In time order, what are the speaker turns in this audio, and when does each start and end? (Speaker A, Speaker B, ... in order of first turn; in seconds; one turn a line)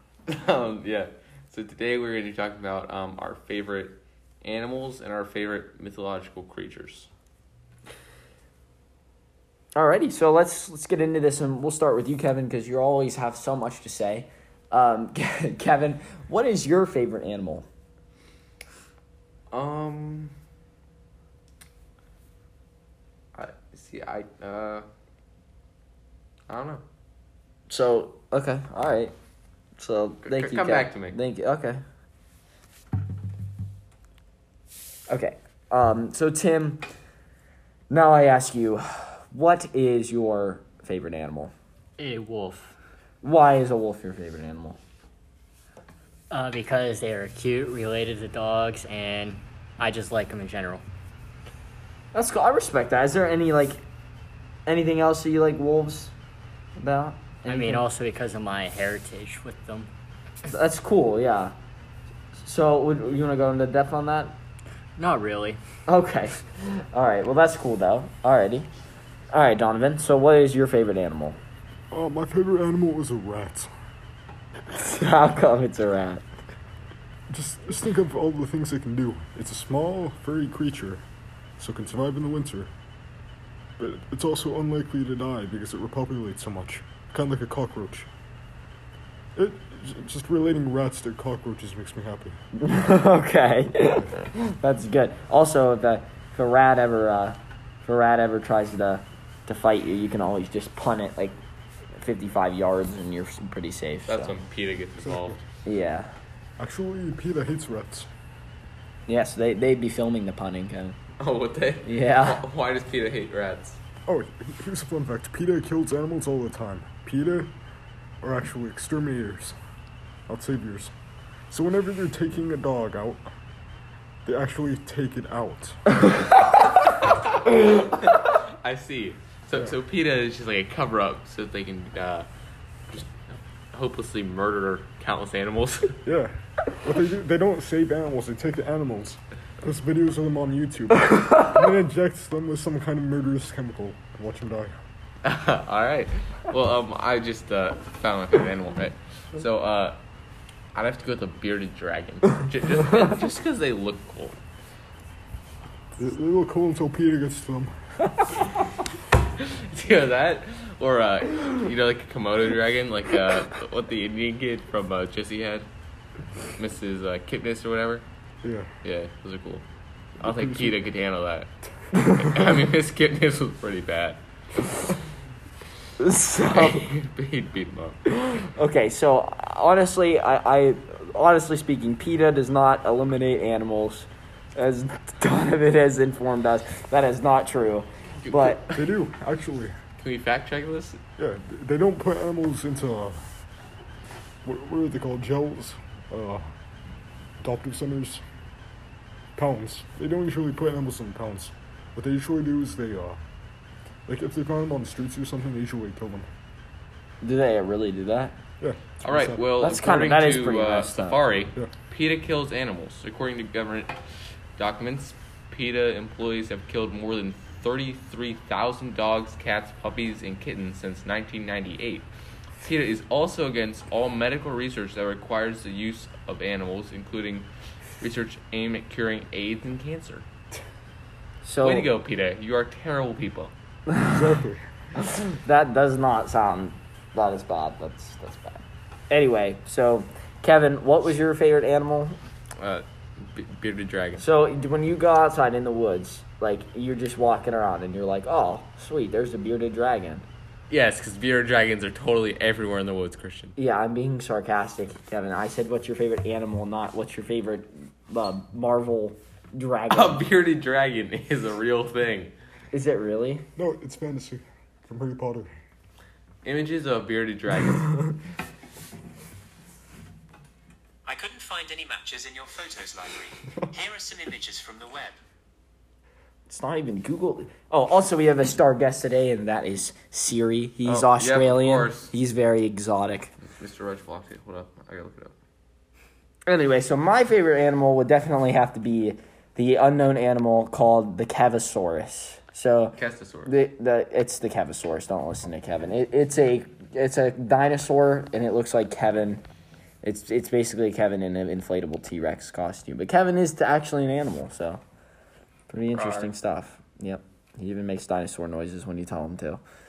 Speaker A: 0.3-7.1
Speaker B: 9.7-17.7
Speaker A: 19.5-20.3
Speaker A: 23.3-24.9
Speaker A: 26.5-26.8
Speaker B: 27.7-29.1
Speaker B: 29.8-31.8
Speaker A: 30.2-31.2
Speaker B: 35.1-36.8
Speaker B: 37.9-41.5
Speaker C: 42.0-42.8
Speaker B: 43.2-44.8
Speaker C: 46.3-50.8
Speaker B: 52.1-53.8
Speaker B: 54.6-56.1
Speaker B: 56.8-57.8
Speaker C: 57.5-59.9
Speaker B: 60.5-61.5
Speaker B: 62.4-64.4
Speaker C: 65.0-65.6
Speaker B: 65.9-68.7
Speaker B: 69.3-71.4
Speaker D: 71.9-73.7
Speaker B: 74.7-76.2
Speaker D: 77.3-81.0
Speaker D: 81.6-82.7
Speaker D: 83.8-88.1
Speaker D: 89.3-92.4
Speaker B: 92.6-101.4
Speaker B: 102.0-104.3
Speaker A: 104.1-105.4
Speaker D: 105.0-105.4
Speaker B: 105.7-106.1
Speaker D: 106.6-108.1
Speaker B: 109.1-111.0
Speaker A: 111.2-113.8
Speaker B: 111.8-112.5
Speaker D: 114.1-117.5
Speaker D: 118.2-119.6
Speaker D: 120.3-120.9
Speaker D: 121.5-123.3
Speaker D: 124.2-125.8
Speaker A: 127.8-132.3
Speaker A: 132.9-136.0
Speaker D: 136.0-144.8
Speaker A: 145.2-150.0
Speaker A: 150.8-154.4
Speaker D: 155.9-157.7
Speaker A: 159.4-165.7
Speaker A: 166.6-168.0
Speaker D: 168.4-168.7
Speaker A: 168.8-169.6
Speaker D: 170.2-170.8
Speaker A: 170.2-171.5
Speaker B: 171.9-172.2
Speaker A: 172.0-174.2
Speaker B: 176.0-176.9
Speaker A: 176.5-178.0
Speaker B: 178.1-188.9
Speaker A: 188.2-188.6
Speaker D: 188.7-189.8
Speaker A: 190.0-191.0
Speaker D: 191.2-193.3
Speaker D: 194.4-196.5
Speaker D: 197.4-198.2
Speaker D: 199.3-203.2
Speaker D: 204.1-206.3
Speaker B: 207.2-208.4
Speaker D: 208.6-209.6
Speaker A: 209.0-213.9
Speaker B: 209.6-211.2
Speaker A: 214.6-222.1
Speaker A: 222.6-227.5
Speaker A: 228.0-230.2
Speaker B: 231.4-231.9
Speaker A: 231.6-233.5
Speaker B: 233.9-234.3
Speaker D: 234.1-234.6
Speaker B: 234.9-242.2
Speaker A: 242.6-244.2
Speaker B: 244.2-250.2
Speaker A: 250.7-253.5
Speaker B: 253.6-260.3
Speaker A: 259.9-262.3
Speaker B: 262.7-263.4
Speaker D: 263.6-265.6
Speaker A: 266.4-268.0
Speaker E: 271.1-273.3
Speaker E: 273.8-275.1
Speaker B: 276.5-283.3
Speaker A: 280.9-282.1
Speaker A: 283.5-285.3
Speaker B: 286.5-299.4
Speaker A: 293.0-293.6
Speaker B: 300.0-304.8
Speaker B: 305.7-309.6
Speaker A: 305.9-306.3